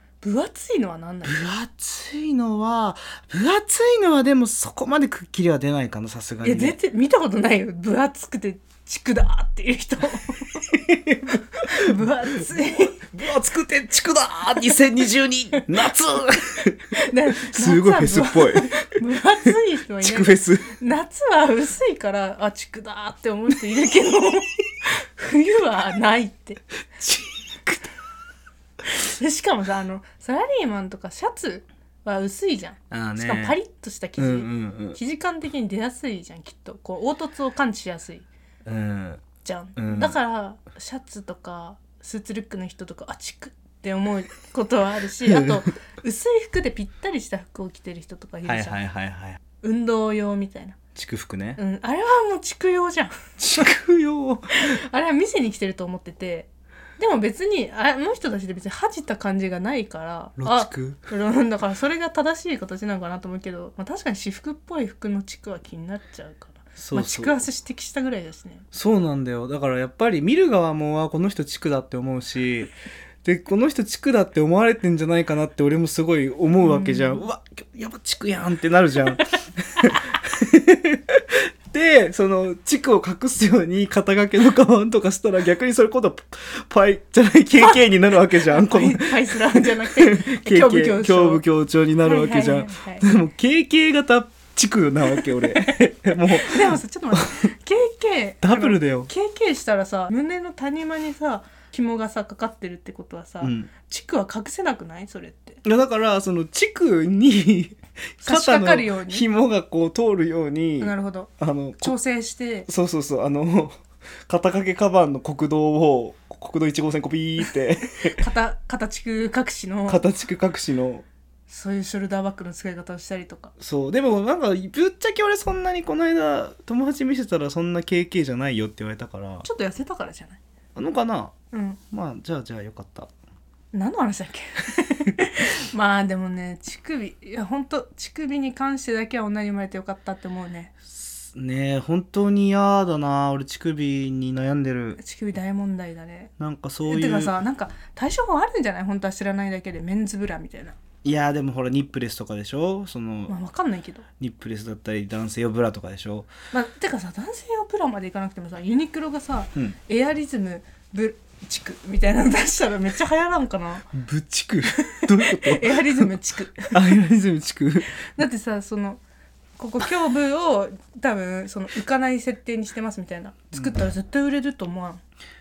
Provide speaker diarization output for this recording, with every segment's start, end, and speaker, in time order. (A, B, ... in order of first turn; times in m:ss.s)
0:00.2-0:01.4 A
0:01.2-0:06.8 B
0:06.4-0:10.7 A
0:10.7-0:12.0 B
0:11.6-0:13.1 A
0:13.0-0:16.8 B
0:16.9-0:26.6 A
0:17.4-0:18.8 B
0:20.0-0:20.7 B
0:27.0-0:27.9 B
0:28.8-0:38.2 A
0:32.9-0:33.6 B
0:34.2-0:35.0 B
0:38.6-0:39.2 B
0:39.4-0:48.8 A
0:39.8-0:40.2 B
0:45.2-0:45.6 B
0:48.4-0:49.4 B
0:49.6-0:50.8 A
0:50.9-0:51.6 B
0:51.6-0:53.2 A
0:53.4-0:54.6 B
0:54.5-1:08.6 A
1:00.4-1:01.0 B
1:06.8-1:07.3 B
1:08.7-1:12.7 B
1:13.2-1:37.4 B
1:16.6-1:17.2 A
1:28.3-1:31.4 A
1:32.0-1:33.0 A
1:35.5-1:45.6 A
1:38.4-1:39.1 B
1:43.4-1:43.7 B
1:45.6-1:51.9 B
1:48.2-1:49.2 A
1:50.8-1:52.7 A
1:52.7-1:58.2 B
1:58.2-2:00.0 A
1:59.9-2:01.0 B
2:01.5-2:03.5 A
2:03.6-2:09.4 B
2:09.4-2:10.4 A
2:10.7-2:11.3 B
2:11.5-2:11.8 A
2:11.9-2:13.1 B
2:13.7-2:20.7 A
2:20.9-2:25.0 B
2:25.0-2:26.3 A
2:26.4-2:27.4 B
2:26.8-2:30.8 A
2:31.0-2:33.4 B
2:33.3-2:34.0 A
2:34.2-2:36.3 B
2:36.5-2:43.9 A
2:43.9-2:46.0 B
2:44.7-2:46.8 A
2:46.7-2:47.9 B
2:48.0-2:49.0 A
2:49.6-2:55.0 A